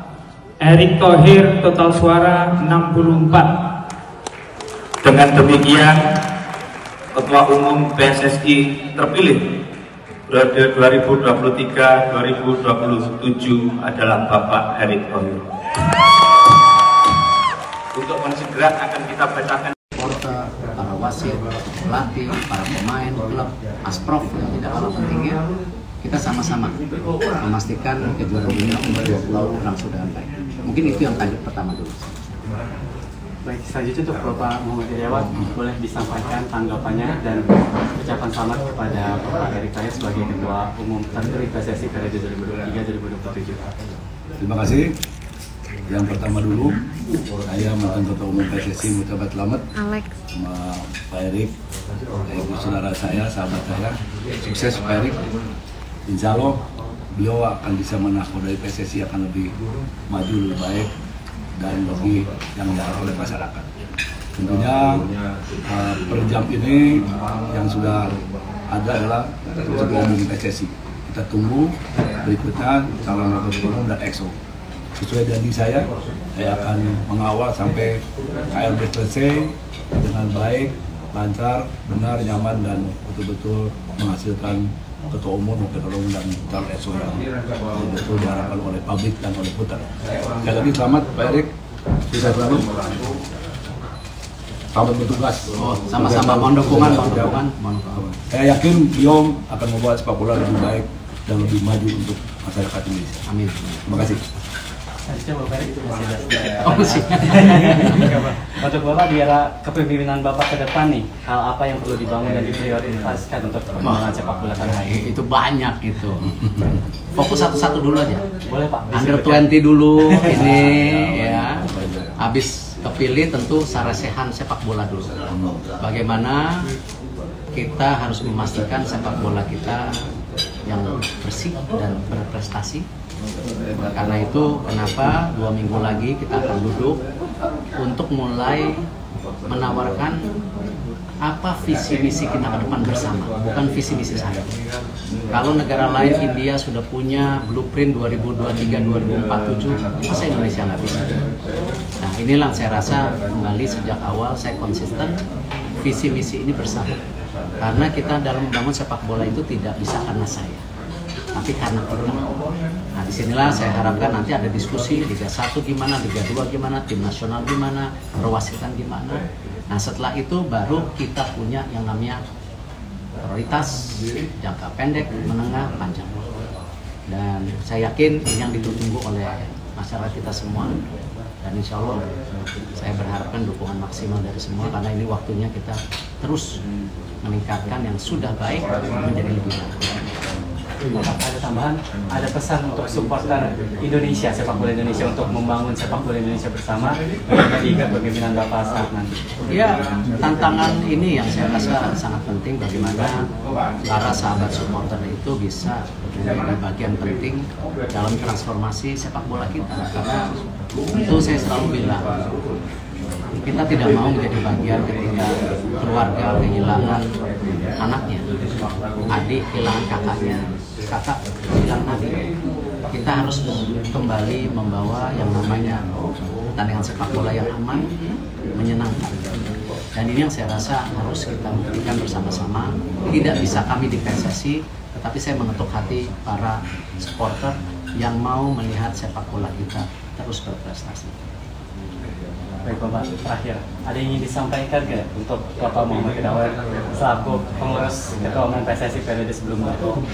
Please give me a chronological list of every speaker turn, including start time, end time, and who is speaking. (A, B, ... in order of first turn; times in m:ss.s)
0:00.6-0:03.5 A
0:05.1-0:06.0 B
0:07.2-0:09.4 B
0:10.3-0:15.3 B
0:18.0-0:19.6 B
0:20.0-0:25.4 C
0:26.0-0:26.8 C
0:27.4-0:32.1 C
0:33.5-0:37.4 D
0:38.0-0:43.6 D
0:44.4-0:44.9 E
0:45.9-0:46.8 E
0:47.5-0:49.6 E
0:50.3-0:51.5 E
0:52.3-0:55.2 E
0:56.1-0:56.6 E
0:57.2-0:59.5 E
1:00.1-1:00.9 E
1:01.6-1:03.7 E
1:04.4-1:05.1 E
1:05.7-1:08.2 E
1:08.7-1:14.3 E
1:15.0-1:18.0 E
1:18.5-1:27.2 E
1:27.8-1:29.8 E
1:30.4-1:31.5 E
1:32.1-1:32.7 E
1:34.8-1:37.4 E
1:35.6-1:38.0 C
1:38.0-1:43.2 E
1:43.3-1:43.8 C
1:43.9-1:44.2 E
1:45.1-1:55.0 D
1:46.6-1:48.1 C
1:54.6-1:56.4 C
1:57.2-1:58.2 C
1:58.5-2:00.6 D
1:58.9-2:01.6 C
2:00.3-2:02.1 E
2:02.2-2:05.1 C
2:05.8-2:06.5 C
2:07.5-2:09.9 C
2:10.7-2:12.8 C
2:13.9-2:17.0 C
2:17.8-2:18.7 C
2:19.5-2:20.2 C
2:21.3-2:24.5 C
2:25.3-2:31.1 C
2:32.0-2:35.2 C
2:35.8-2:37.0 C
2:37.6-2:40.6 C
2:41.4-2:42.2 C
2:43.0-2:52.2 C
2:53.2-2:56.2 C
2:57.1-3:00.8 C
3:01.4-3:02.0 C
3:02.8-3:06.5 C
3:07.2-3:10.0 C
3:11.0-3:19.2 D
3:19.5-3:23.2 C
3:23.9-3:30.2 C
3:30.9-3:32.2 C
3:33.4-3:37.0 C
3:37.8-3:38.2 C
3:39.1-3:42.2 C
3:42.9-3:45.9 C
3:46.6-3:47.9 C
3:48.6-3:49.3 C
3:50.0-4:01.2 C
4:02.6-4:09.9 D